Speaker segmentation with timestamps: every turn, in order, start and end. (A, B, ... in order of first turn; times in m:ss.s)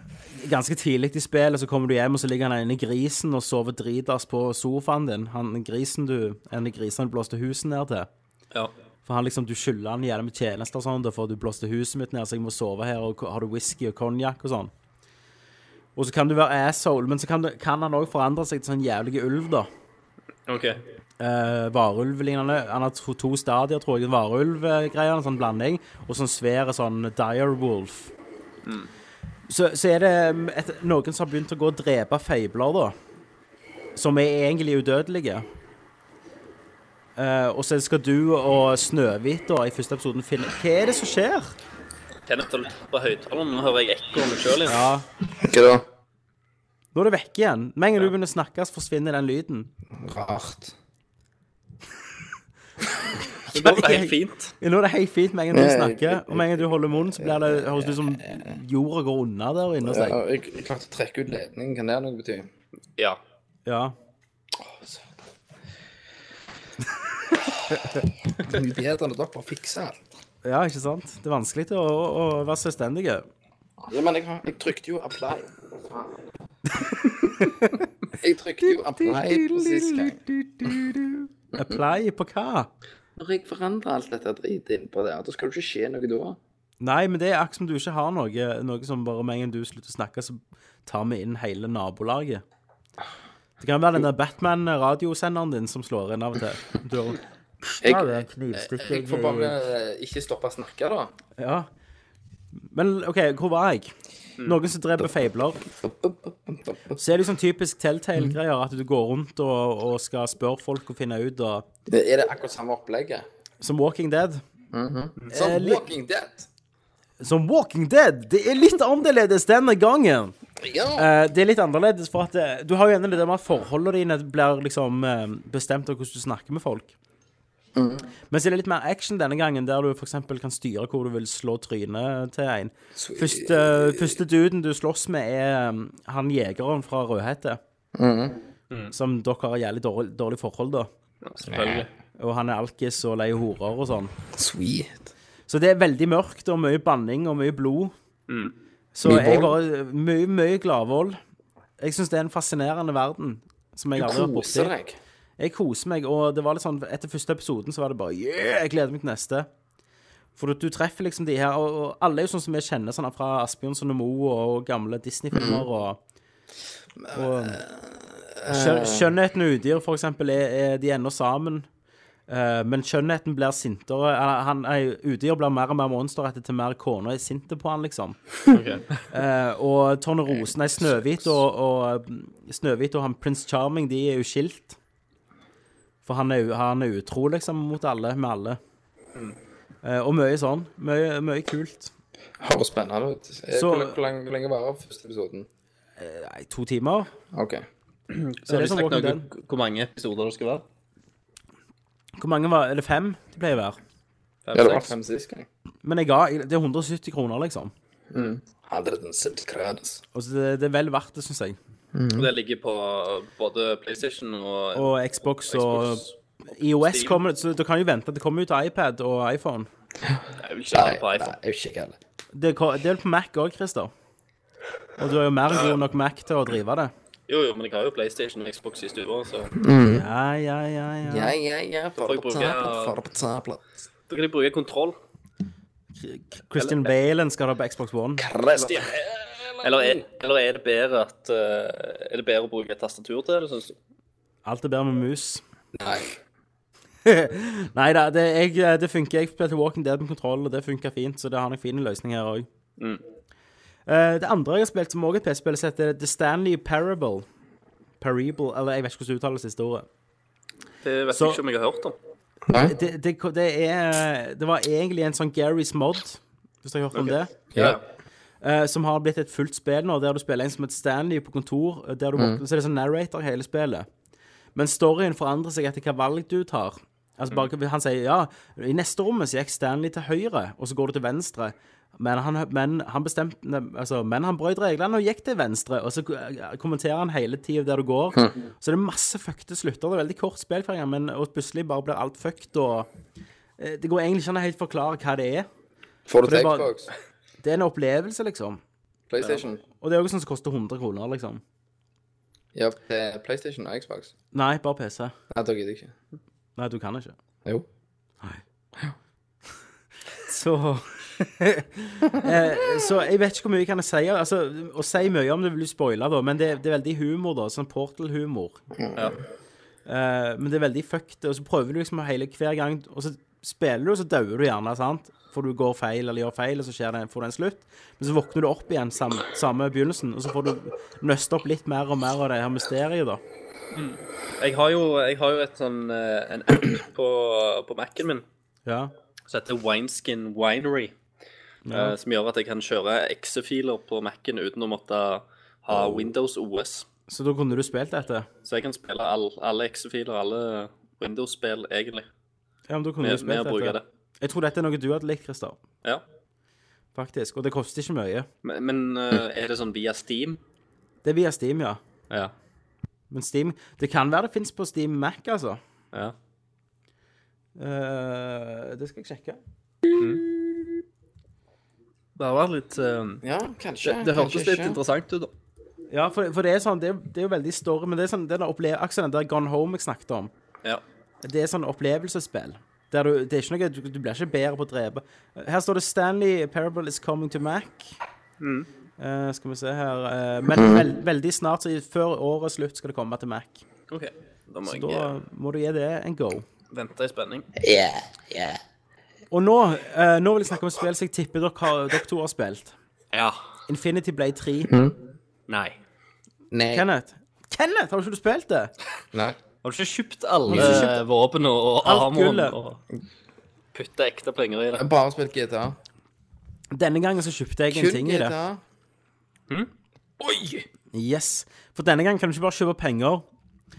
0:00.3-0:08.1 A
0:09.0-0:14.7 A
0:16.0-0:19.7 A
0:20.5-0:20.8 B
0:21.2-0:28.1 A
0:29.5-0:32.9 A
0:34.0-0:35.4 A
0:37.2-0:41.5 A
0:42.3-0:44.8 B
0:44.7-0:45.0 A
0:45.3-0:45.8 C
0:46.9-0:49.7 A
0:49.9-0:50.7 C
0:53.5-0:54.5 B
0:53.5-1:00.2 A
0:55.5-0:58.5 C
0:59.8-1:02.5 C
1:03.6-1:03.9 A
1:04.5-1:05.1 C
1:08.4-1:10.0 C
1:10.4-1:13.2 A
1:13.8-1:16.2 C
1:16.8-1:17.8 A
1:18.1-1:20.2 C
1:18.6-1:22.7 A
1:23.2-1:26.4 C
1:26.8-1:32.4 A
1:33.6-1:39.5 A
1:37.8-1:41.1 C
1:41.4-1:41.7 A
1:42.7-1:43.9 A
1:44.4-1:45.6 A
1:45.6-1:47.0 C
1:47.0-1:51.6 A
1:51.9-1:53.2 C
1:53.6-1:54.4 A
1:54.7-1:56.5 C
1:55.3-1:55.9 A
1:57.2-2:00.3 A
2:00.6-2:01.1 C
2:01.0-2:06.9 A
2:07.7-2:08.1 C
2:08.3-2:17.6 A
2:13.0-2:14.2 C
2:17.9-2:18.4 C
2:18.9-2:20.9 A
2:21.2-2:21.9 B
2:21.4-2:21.9 C
2:22.2-2:24.1 A
2:24.3-2:25.1 C
2:25.5-2:27.9 A
2:28.3-2:28.5 B
2:28.9-2:31.2 A
2:29.0-2:29.5 C
2:31.8-2:34.7 A
2:33.9-2:35.0 C
2:35.4-2:39.5 A
2:40.4-2:46.0 A
2:45.3-2:45.6 C
2:47.0-2:49.1 C
2:47.1-2:47.6 A
2:48.5-2:51.6 A
2:52.3-2:58.3 A
2:58.5-2:59.0 B
2:59.1-3:04.8 A
3:00.8-3:01.2 C
3:06.0-3:08.6 A
3:09.8-3:11.9 A
3:12.4-3:15.5 C
3:13.5-3:14.0 A
3:16.0-3:17.1 A
3:17.3-3:17.6 C
3:18.1-3:20.6 B
3:18.4-3:19.2 A
3:22.2-3:23.8 A
3:24.4-3:24.9 B
3:24.5-3:25.5 C
3:25.8-3:27.7 A
3:28.1-3:30.0 C
3:30.1-3:31.6 A
3:31.9-3:32.3 C
3:32.2-3:35.0 B
3:34.7-3:39.7 A
3:35.5-3:36.1 B
3:36.8-3:37.2 B
3:40.1-3:42.0 C
3:40.4-3:41.4 B
3:42.3-3:43.9 A
3:45.0-3:46.9 A
3:45.5-3:45.8 B
3:47.3-3:49.5 B
3:49.6-3:50.0 C
3:49.9-3:51.3 A
3:51.0-3:53.6 C
3:52.0-3:53.0 B
3:54.1-3:55.0 B
3:55.9-3:58.2 A
3:56.6-3:56.9 B
3:58.2-4:00.0 C
3:58.6-3:59.1 B
3:59.6-4:03.8 B
4:04.4-4:05.4 A
4:05.7-4:06.2 C
4:07.0-4:12.5 A
4:13.9-4:17.2 A
4:18.0-4:19.8 A
4:20.8-4:21.9 B
4:21.1-4:21.4 A
4:22.5-4:22.7 C
4:22.5-4:27.4 A
4:26.9-4:27.8 B
4:28.4-4:33.9 A
4:34.5-4:52.9 A
4:53.6-4:55.5 A
4:56.1-4:56.9 C
4:56.2-4:56.7 A
4:57.4-4:58.6 A
4:59.1-4:59.6 C
4:59.7-5:01.4 A
5:02.5-5:04.1 C
5:04.3-5:05.1 A
5:05.3-5:05.9 C
5:06.6-5:07.1 A
5:10.2-5:18.6 A
5:18.8-5:19.2 C
5:19.8-5:33.2 A
5:33.7-5:38.2 B
5:38.6-5:38.9 A
5:39.3-5:40.9 B
5:41.6-5:41.9 A
5:41.7-5:46.9 B
5:45.7-5:46.1 C
5:47.1-5:48.3 A
5:48.4-5:52.1 B
5:52.7-5:55.6 A
5:53.0-5:53.8 B
5:56.9-5:58.3 A
5:58.4-6:00.4 B
6:01.0-6:01.8 A
6:03.1-6:05.6 A
6:07.6-6:09.4 A
6:10.0-6:10.2 B
6:12.2-6:13.2 B
6:13.2-6:14.8 C
6:13.8-6:15.3 B
6:15.9-6:20.3 A
6:21.2-6:27.9 A
6:28.4-6:28.7 B
6:29.0-6:33.6 A
6:30.5-6:30.9 C
6:33.9-6:35.1 B
6:34.6-6:36.4 A
6:36.7-6:37.5 B
6:37.6-6:38.6 C
6:39.3-6:42.8 A
6:43.1-6:43.4 B
6:43.7-6:44.7 A
6:44.7-6:45.0 C
6:45.5-6:45.8 B
6:46.5-6:46.8 C
6:46.7-6:48.7 A
6:49.1-6:49.4 C
6:49.6-6:52.8 B
6:50.5-6:51.0 C
6:50.5-6:50.9 A
6:51.8-6:52.5 A
6:53.7-6:54.8 B
6:54.7-6:55.8 C
6:56.7-6:58.4 A
6:57.7-6:58.6 C
7:00.2-7:00.6 C
7:00.9-7:03.2 A